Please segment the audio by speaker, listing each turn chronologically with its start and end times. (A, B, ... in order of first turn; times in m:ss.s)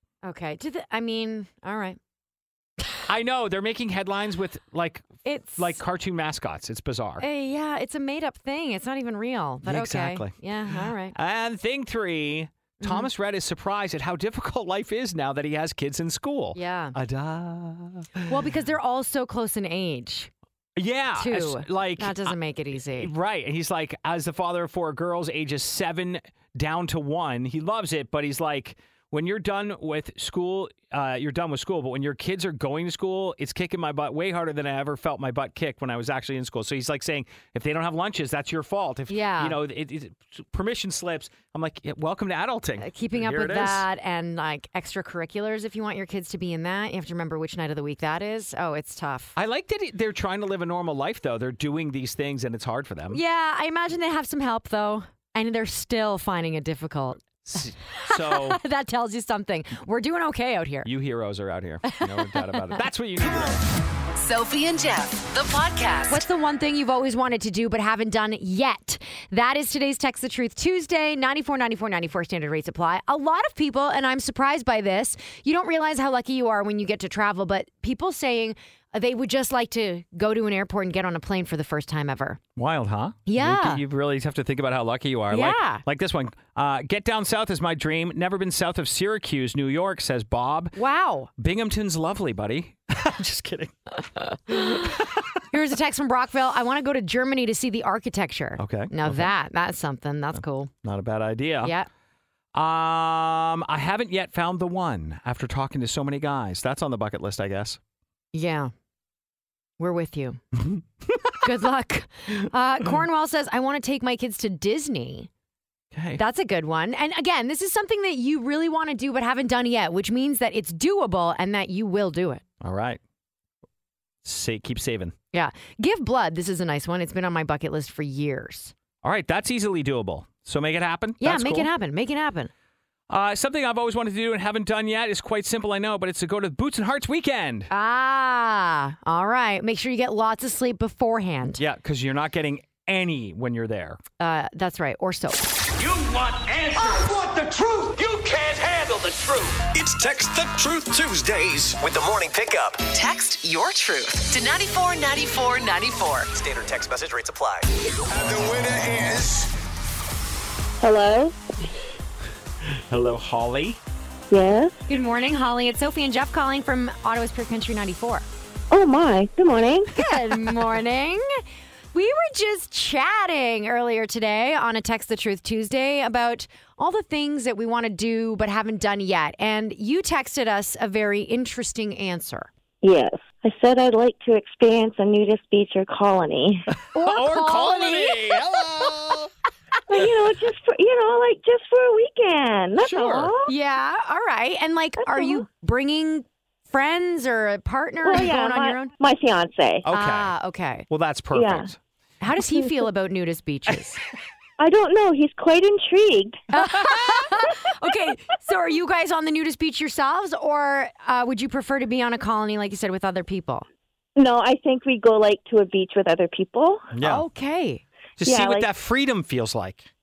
0:00.2-0:02.0 A
0:03.0-0:07.2 B
0:05.2-0:05.8 A
0:07.2-0:11.1 A
0:09.6-0:18.3 B
0:12.8-0:13.1 A
0:16.5-0:17.0 A
0:18.3-0:20.3 A
0:20.8-0:43.8 B
0:21.2-0:23.1 A
0:39.1-0:39.6 A
0:42.8-0:49.3 A
0:49.4-0:53.2 B
0:53.1-0:57.2 A
0:57.4-0:58.6 B
0:57.9-1:00.9 A
1:00.8-1:03.6 B
1:01.9-1:02.8 A
1:04.2-1:06.2 C
1:06.1-1:22.4 A
1:22.6-1:30.8 B
1:23.2-1:23.8 A
1:25.3-1:25.8 A
1:30.7-1:31.3 A
1:31.4-1:35.1 B
1:35.5-1:40.7 A
1:38.6-1:39.3 B
1:40.3-1:41.7 B
1:41.6-1:41.9 A
1:42.5-1:47.8 B
1:48.3-1:48.7 A
1:49.8-1:50.4 A
1:51.4-1:55.3 A
1:55.9-1:56.2 B
1:56.2-2:02.4 A
2:02.6-2:03.0 B
2:04.2-2:05.1 B
2:05.3-2:08.7 A
2:09.0-2:11.7 B
2:11.2-2:12.5 A
2:13.1-2:17.7 B
2:17.7-2:21.6 A
2:21.6-2:24.0 B
2:24.2-2:25.5 A
2:25.8-2:29.7 D
2:29.7-2:32.8 E
2:32.9-2:36.3 C
2:36.3-2:37.7 E
2:38.1-2:39.5 D
2:38.2-2:39.2 E
2:40.8-2:41.4 F
2:42.7-2:43.8 B
2:44.3-2:44.7 F
2:44.9-2:48.2 A
2:48.7-2:50.0 F
2:49.9-2:51.4 A
2:51.9-3:02.5 A
3:02.8-3:06.7 F
3:06.8-3:09.3 B
3:06.9-3:08.6 A
3:09.9-3:13.5 F
3:12.8-3:13.3 B
3:13.4-3:18.9 A
3:15.1-3:15.4 F
3:18.0-3:19.8 F
3:19.8-3:20.4 B
3:19.9-3:20.8 A
3:20.9-3:21.8 B
3:21.3-3:21.7 F
3:22.2-3:24.0 A
3:24.6-3:26.4 F
3:26.5-3:33.7 A
3:34.2-3:36.9 F
3:36.9-3:37.2 B
3:37.0-3:37.8 A
3:38.2-3:39.9 B
3:38.2-3:38.7 F